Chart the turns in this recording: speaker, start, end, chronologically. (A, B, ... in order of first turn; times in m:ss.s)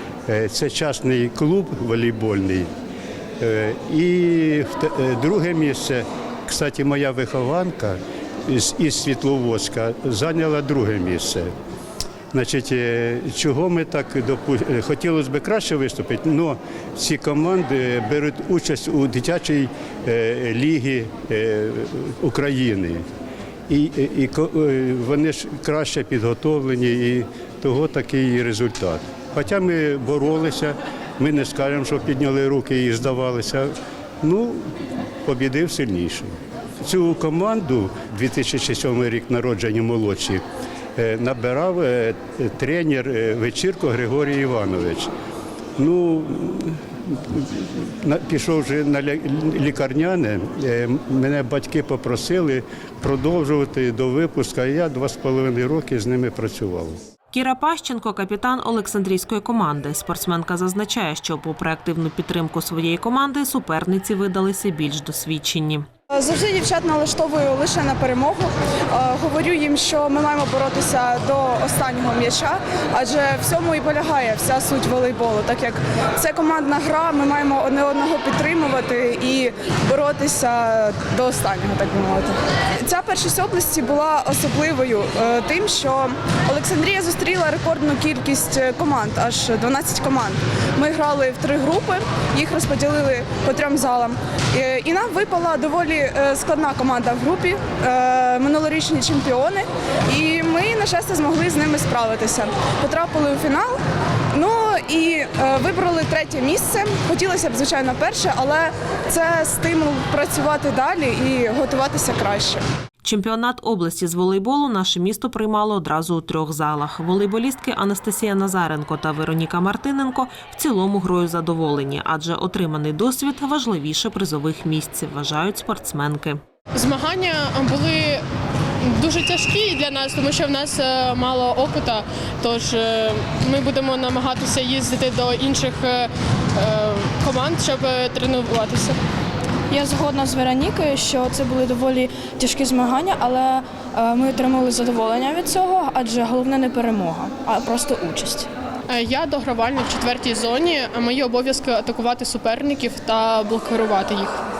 0:00.3-0:02.7 A
0:03.4-0:11.5 A
0:12.3-0:23.0 A
0:23.7-0:33.7 A
0:34.2-0:34.6 A
0:35.2-0:36.3 A
0:36.8-0:40.4 A
0:41.0-0:45.1 A
0:45.8-0:57.0 A
0:57.3-1:05.8 B
1:06.1-1:43.8 C
1:44.3-1:52.6 C
1:53.0-2:06.4 B
2:06.7-2:08.2 D
2:08.8-2:19.0 D
2:19.7-2:28.5 E
2:28.9-2:34.4 D